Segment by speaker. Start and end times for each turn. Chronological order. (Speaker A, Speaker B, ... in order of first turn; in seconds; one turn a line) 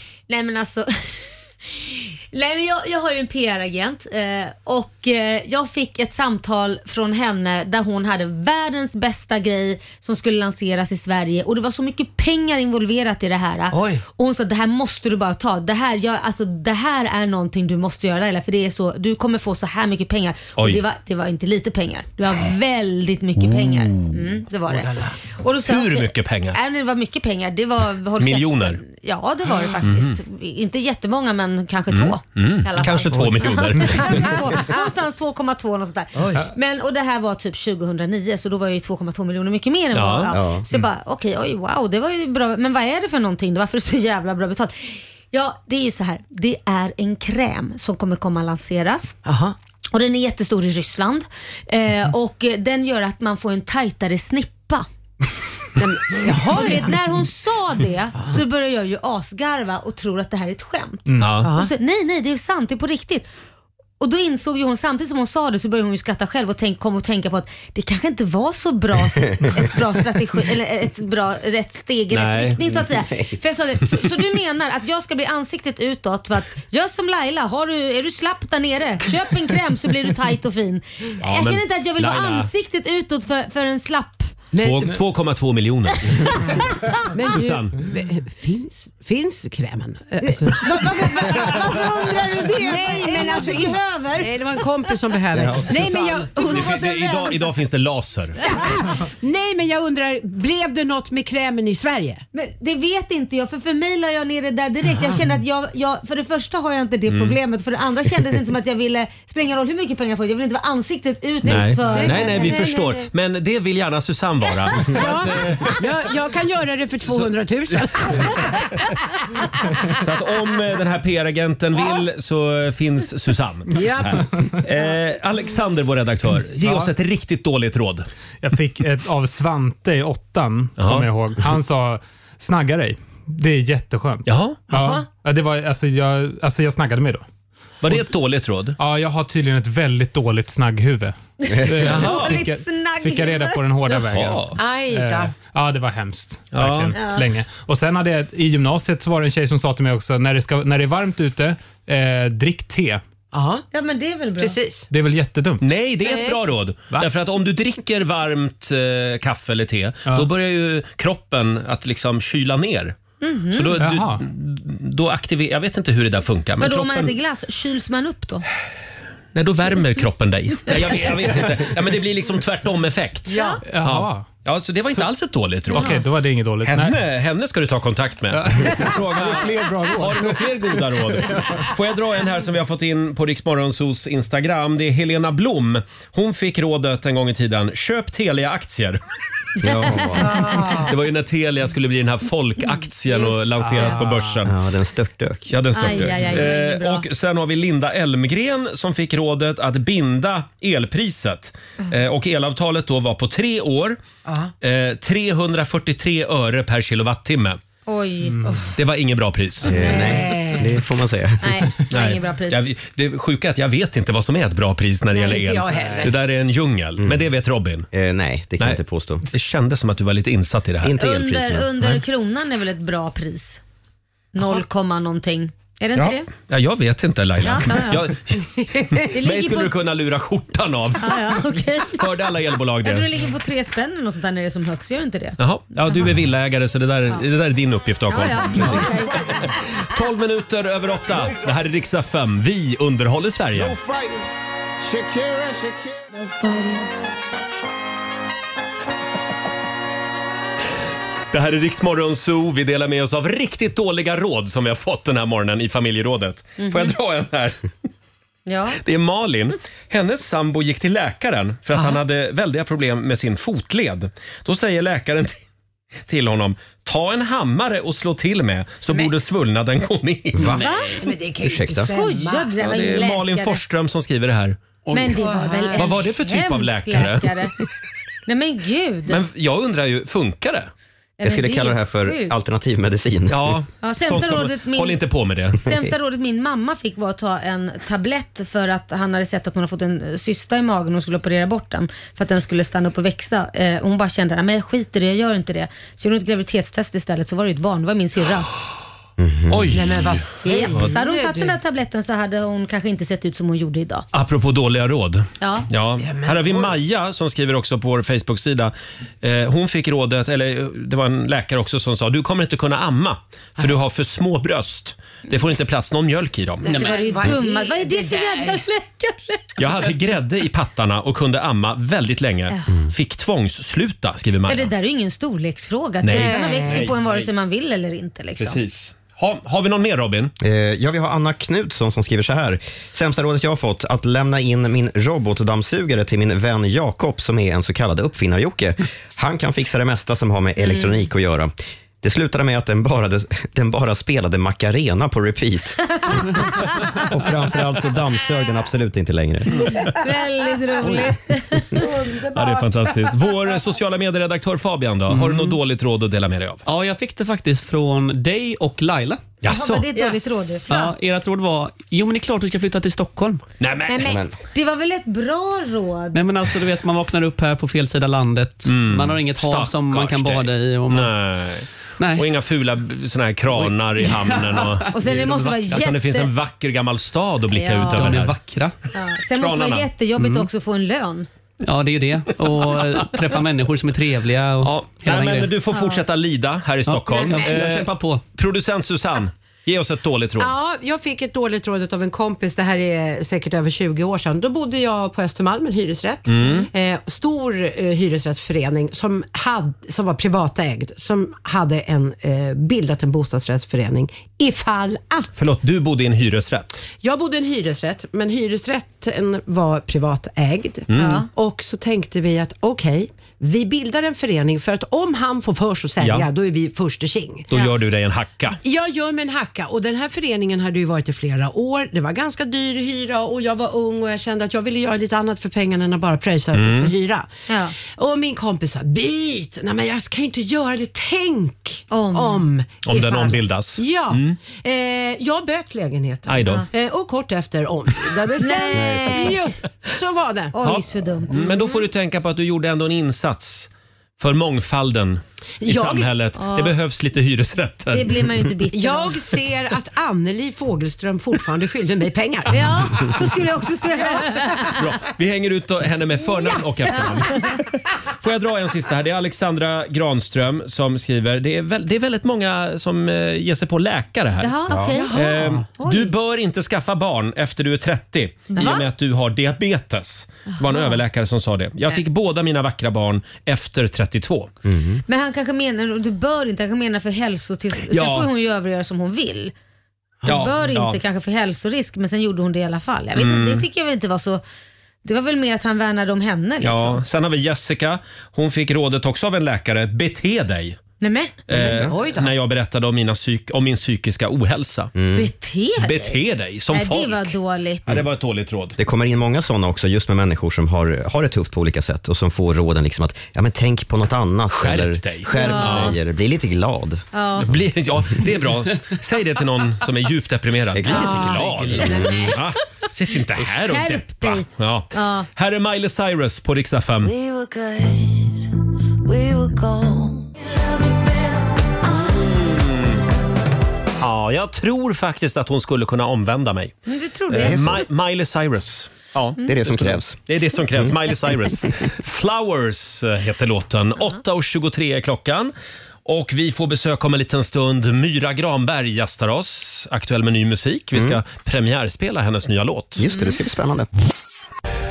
Speaker A: 0.3-49.1
Speaker B: 13.7-14.0
Speaker C: 23.5-24.0
Speaker B: 24.7-25.1
Speaker C: 25.6-26.6
Speaker C: 28.2-28.8
Speaker C: 29.8-30.2
Speaker C: 31.9-34.3
Speaker C: 39.9-40.3
Speaker D: 40.3-40.6
Speaker B: 49.2-49.5
Speaker A: 49.9-54.9
Speaker B: 55.8-57.0
Speaker A: 56.5-63.3
Speaker E: 61.1-61.4
Speaker C: 61.2-61.5
Speaker B: 61.4-61.7
Speaker A: 64.0-84.4
Speaker C: 72.1-72.6
Speaker D: 72.6-73.4
Speaker C: 81.2-82.5
Speaker B: 84.5-84.9
Speaker C: 84.6-86.4
Speaker B: 86.4-96.8
Speaker C: 87.3-87.8
Speaker A: 90.5-94.6
Speaker D: 95.3-95.7
Speaker A: 95.7-97.3
Speaker C: 96.4-98.4
Speaker B: 98.5-102.2
Speaker A: 102.3-113.1
Speaker B: 105.0-105.2
Speaker C: 107.1-107.4
Speaker C: 111.4-115.8
Speaker B: 111.5-112.7
Speaker B: 114.8-118.8
Speaker C: 119.9-128.1
Speaker B: 123.7-124.2
Speaker E: 126.6-126.9
Speaker E: 128.4-137.2
Speaker C: 130.8-131.1
Speaker C: 134.2-134.6
Speaker B: 134.7-135.1
Speaker C: 137.8-138.8
Speaker E: 138.8-153.0
Speaker A: 141.4-144.0
Speaker C: 141.8-142.4
Speaker C: 144.1-144.6
Speaker B: 144.6-145.3
Speaker C: 146.5-146.9
Speaker A: 146.9-147.3
Speaker B: 153.3-153.6
Speaker A: 153.7-154.6
Speaker B: 154.4-154.9
Speaker E: 154.9-155.6
Speaker C: 155.6-162.9
Speaker B: 156.1-156.4
Speaker A: 163.2-163.8
Speaker C: 163.5-167.1
Speaker E: 163.8-164.2
Speaker A: 166.6-168.4
Speaker C: 169.3-175.9
Speaker B: 173.3-173.6
Speaker A: 173.3-173.6
Speaker E: 173.7-174.3
Speaker E: 175.7-177.0
Speaker A: 175.7-176.0
Speaker C: 176.6-189.0
Speaker E: 178.3-180.4
Speaker D: 189.6-190.3
Speaker A: 189.6-190.7
Speaker C: 189.9-194.5
Speaker B: 190.3-190.9
Speaker A: 193.1-193.8
Speaker E: 193.6-194.4
Speaker D: 194.4-196.3
Speaker C: 195.5-204.0
Speaker A: 195.7-197.0
Speaker B: 204.2-204.5
Speaker C: 204.6-207.6
Speaker A: 207.9-208.4
Speaker C: 208.7-210.1
Speaker D: 209.6-211.4
Speaker B: 209.7-210.7
Speaker A: 211.4-212.6
Speaker C: 211.9-217.9
Speaker B: 215.1-216.2
Speaker D: 217.9-219.2
Speaker C: 218.6-220.9
Speaker D: 220.8-221.7
Speaker A: 220.9-223.6
Speaker A: 224.3-226.3
Speaker C: 225.9-233.1
Speaker A: 227.4-228.0
Speaker A: 229.1-229.7
Speaker A: 231.0-232.1
Speaker A: 232.8-236.1
Speaker C: 235.4-243.8
Speaker A: 238.1-239.4
Speaker F: 246.1-246.9
Speaker C: 251.3-257.7
Speaker A: 256.6-256.9
Speaker A: 258.4-258.8
Speaker C: 258.8-265.4
Speaker C: 266.0-270.5
Speaker D: 270.4-270.6
Speaker A: 270.5-271.0
Speaker B: 270.9-272.5
Speaker D: 271.4-271.9
Speaker A: 271.9-273.6
Speaker C: 272.6-274.6
Speaker G: 274.9-275.1
Speaker A: 274.9-277.5
Speaker B: 275.1-275.9
Speaker C: 275.7-277.3
Speaker A: 278.2-279.2
Speaker C: 279.1-280.7
Speaker A: 281.2-282.3
Speaker D: 281.2-283.6
Speaker C: 283.3-285.6
Speaker A: 283.8-285.0
Speaker A: 285.6-298.5
Speaker D: 299.2-299.7
Speaker C: 299.5-300.2
Speaker B: 299.7-301.6
Speaker A: 300.4-304.0
Speaker C: 304.1-316.7
Speaker A: 305.4-305.7
Speaker B: 306.0-306.7
Speaker B: 316.6-318.6
Speaker A: 316.7-319.6
Speaker C: 319.6-324.7
Speaker A: 324.5-328.6
Speaker C: 326.0-327.3
Speaker B: 326.1-326.9
Speaker C: 328.4-330.3
Speaker D: 330.4-345.9
Speaker A: 340.6-341.1
Speaker A: 345.9-346.7
Speaker D: 347.0-349.7
Speaker A: 349.9-351.8
Speaker B: 351.7-353.1
Speaker C: 352.3-356.6
Speaker G: 355.1-355.5
Speaker G: 356.6-359.3
Speaker C: 359.4-359.9
Speaker A: 359.4-360.9
Speaker B: 359.9-360.3
Speaker G: 360.7-363.4
Speaker C: 363.6-364.1
Speaker A: 363.9-366.2
Speaker D: 364.0-364.4
Speaker G: 366.1-371.1
Speaker C: 368.6-378.4
Speaker G: 372.0-372.2
Speaker G: 373.5-374.7
Speaker A: 374.9-376.3
Speaker A: 377.5-378.1
Speaker G: 377.9-378.8
Speaker A: 378.9-381.3
Speaker C: 379.3-379.9
Speaker G: 381.6-385.5
Speaker C: 384.6-390.5
Speaker A: 385.7-386.0
Speaker G: 386.9-388.2
Speaker B: 390.4-405.3
Speaker C: 396.3-396.7
Speaker C: 405.4-406.8
Speaker B: 407.0-417.5
Speaker C: 410.9-411.2
Speaker A: 410.9-411.3
Speaker C: 416.0-416.3
Speaker C: 417.5-418.6
Speaker B: 418.6-427.3
Speaker C: 426.5-426.9
Speaker A: 427.5-427.7
Speaker B: 427.8-440.5
Speaker A: 431.9-432.4
Speaker C: 432.8-434.4
Speaker C: 436.3-436.6
Speaker A: 438.4-439.4
Speaker A: 440.5-441.6
Speaker C: 440.6-448.1
Speaker B: 445.6-446.1
Speaker A: 446.4-446.7
Speaker A: 447.9-449.2
Speaker B: 448.7-453.1
Speaker A: 452.5-454.8
Speaker B: 454.5-454.8
Speaker C: 454.8-457.5
Speaker A: 456.9-457.6
Speaker C: 458.2-464.5
Speaker A: 464.4-466.1
Speaker D: 464.7-464.9
Speaker B: 464.7-465.6
Speaker C: 465.1-474.5
Speaker A: 468.5-468.8
Speaker A: 470.7-470.9
Speaker D: 474.6-475.0
Speaker A: 475.1-479.5
Speaker C: 477.9-478.3
Speaker A: 480.2-484.4
Speaker C: 480.2-481.0
Speaker C: 483.1-483.6
Speaker A: 485.0-487.0
Speaker C: 486.6-490.8
Speaker A: 491.0-491.8
Speaker C: 491.5-494.9
Speaker B: 491.5-492.3
Speaker D: 494.9-495.3
Speaker A: 495.1-496.2
Speaker C: 495.8-498.8
Speaker A: 496.7-498.0
Speaker D: 498.8-507.6
Speaker C: 504.5-505.9
Speaker A: 505.4-505.9
Speaker A: 507.1-507.5
Speaker C: 507.4-517.1
Speaker D: 510.7-512.2
Speaker A: 510.9-512.4
Speaker B: 511.9-512.2
Speaker A: 513.4-515.3
Speaker F: 517.1-518.5
Speaker F: 519.0-522.3
Speaker C: 522.0-523.0
Speaker C: 524.0-526.7
Speaker A: 526.9-527.8
Speaker C: 527.3-535.5
Speaker D: 527.5-527.7
Speaker D: 529.5-530.2
Speaker C: 536.0-543.0
Speaker D: 540.9-541.2
Speaker D: 543.0-543.9